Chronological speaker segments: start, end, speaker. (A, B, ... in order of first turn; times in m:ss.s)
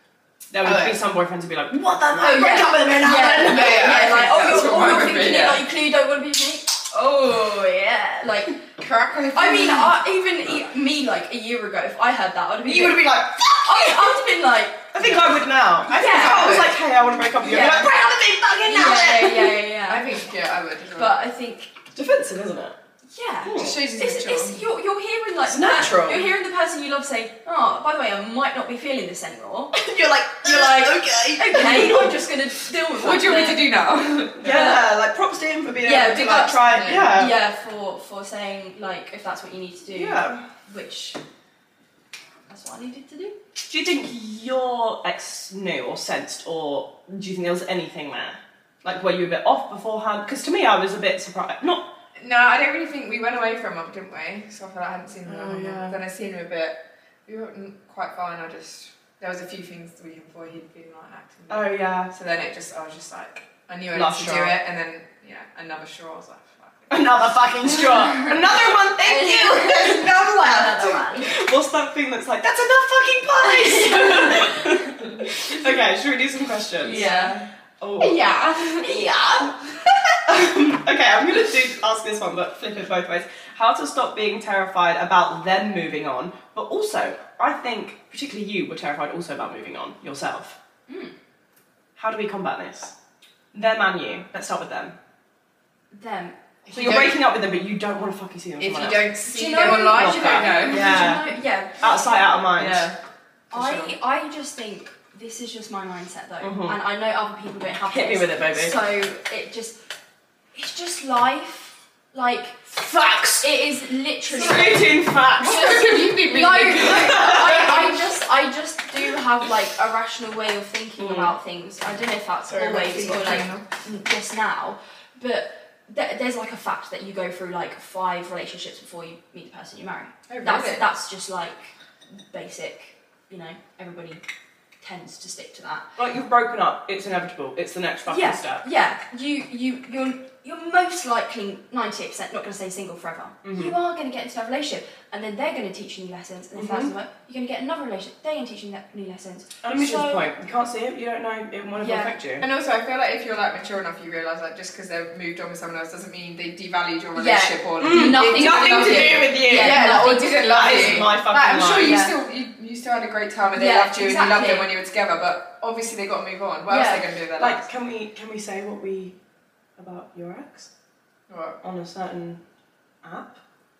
0:00.5-0:04.1 A
0:00.6-0:01.0 B
0:02.1-0:08.6 C
0:03.4-0:05.6 B
0:08.8-0:10.0 B
0:09.3-0:14.9 C
0:12.6-0:14.2 A
0:14.9-0:19.6 A
0:15.0-0:15.3 B
0:15.8-0:16.8 B
0:15.9-0:16.7 C
0:17.4-0:18.0 C
0:18.6-0:20.2 C
0:19.9-0:21.2 B
0:21.0-0:21.7 C
0:21.9-0:22.8 A
0:23.0-0:29.8 C
0:23.4-0:23.8 A
0:23.6-0:24.7 B
0:25.4-0:26.3 A
0:29.7-0:32.3 A
0:30.4-0:33.8 C
0:33.0-0:34.6 B
0:34.4-0:37.4 A
0:34.4-0:34.8 C
0:35.8-0:41.2 C
0:36.6-0:37.1 B
0:39.9-0:40.4 A
0:42.5-0:43.4 C
0:43.6-0:51.9 A
0:52.2-1:07.0 B
0:55.3-0:56.0 A
1:01.5-1:02.1 A
1:03.9-1:04.6 A
1:06.9-1:17.2 A
1:07.9-1:11.4 C
1:13.4-1:14.9 C
1:16.8-1:17.4 C
1:16.8-1:17.5 B
1:17.8-1:19.5 A
1:18.0-1:19.6 C
1:20.3-1:30.6 A
1:30.9-1:31.2 C
1:32.0-1:32.9 A
1:33.5-1:35.0 A
1:35.9-1:37.0 C
1:36.7-1:37.2 B
1:36.7-1:42.9 A
1:38.6-1:41.2 B
1:39.3-1:42.4 C
1:42.5-1:43.0 B
1:43.5-1:44.0 B
1:43.5-1:49.8 C
1:46.4-1:46.8 A
1:47.9-1:48.9 A
1:50.5-1:52.7 C
1:52.7-1:53.6 A
1:53.4-2:14.2 C
1:54.3-1:55.8 A
1:55.4-1:57.8 B
1:56.8-1:57.9 A
2:01.0-2:01.3 A
2:02.5-2:03.6 B
2:10.3-2:10.9 B
2:14.8-2:15.9 C
2:16.0-2:18.6 A
2:18.1-2:30.3 C
2:23.4-2:23.8 A
2:26.6-2:26.9 A
2:29.6-2:32.5 A
2:31.8-2:32.2 C
2:32.4-2:47.6 B
2:37.2-2:41.1 C
2:37.8-2:42.1 A
2:41.8-2:42.2 C
2:43.6-2:44.7 C
2:46.7-2:47.1 C
2:47.4-2:49.2 A
2:49.8-2:50.7 A
2:51.3-2:51.6 B
2:51.6-2:52.4 A
2:53.0-2:53.4 A